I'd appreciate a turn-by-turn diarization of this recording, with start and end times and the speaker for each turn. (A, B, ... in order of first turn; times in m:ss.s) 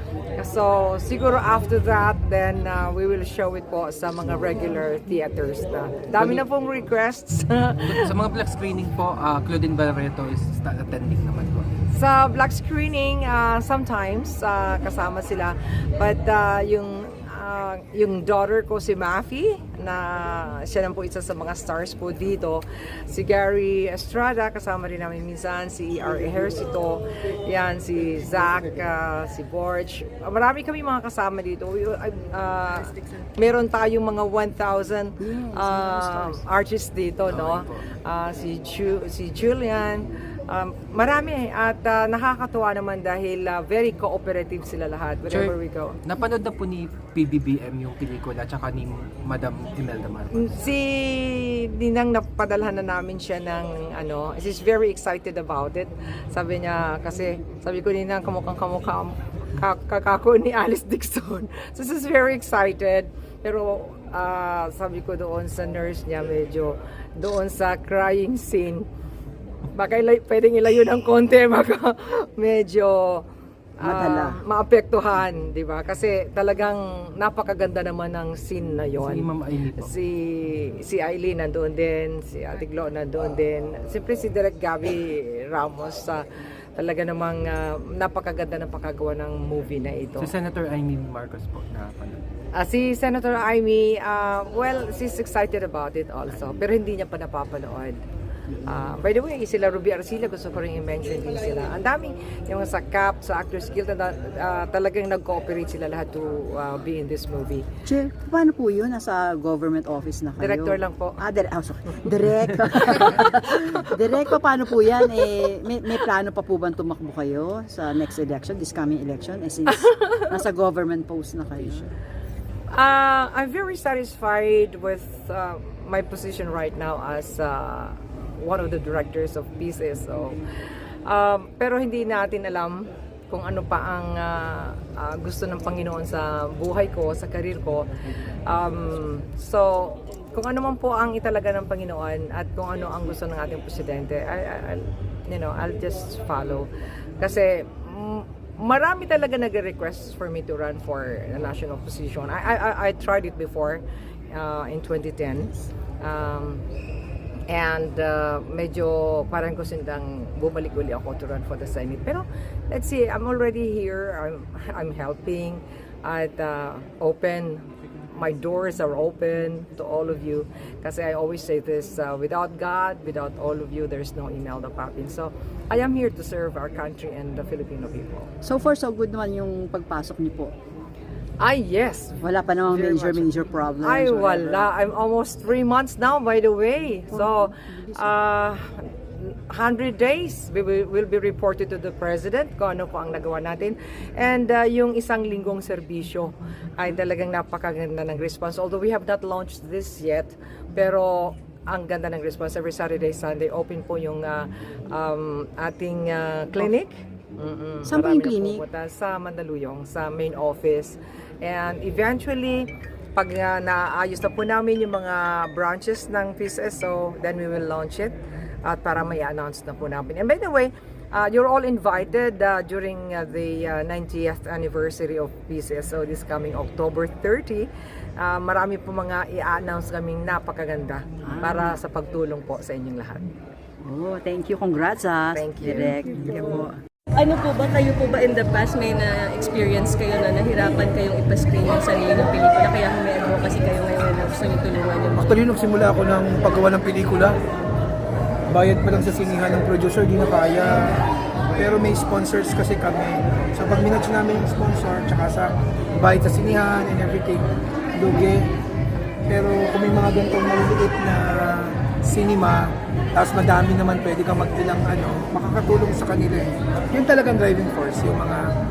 0:00.4-0:08.1 A
0:06.2-0:06.4 B
0:07.9-0:11.7 B
0:11.9-0:46.0 A
0:35.2-0:36.4 C
0:37.3-0:37.8 B
0:45.3-0:50.5 B
0:50.3-1:08.9 A
1:09.7-1:13.3 A
1:13.8-1:26.2 A
1:13.8-1:14.4 C
1:19.0-1:19.9 B
1:26.8-1:30.3 A
1:30.2-1:32.2 B
1:32.5-1:38.0 A
1:38.6-1:47.7 A
1:47.8-2:01.9 C
1:50.4-1:51.2 A
2:02.7-2:10.4 A
2:11.1-2:36.6 A
2:37.5-2:58.3 A
2:58.4-3:00.5 C
3:01.4-3:53.3 A
3:02.2-3:04.7 C
3:07.6-3:08.0 C
3:27.8-3:28.6 C
3:51.2-3:51.8 C
3:53.8-3:56.8 C
3:55.3-3:56.0 A
3:56.3-3:56.6 D
3:57.1-4:05.4 D
4:05.2-4:07.3 E
4:08.5-4:18.5 E
4:19.3-4:22.6 E
4:23.2-4:28.4 E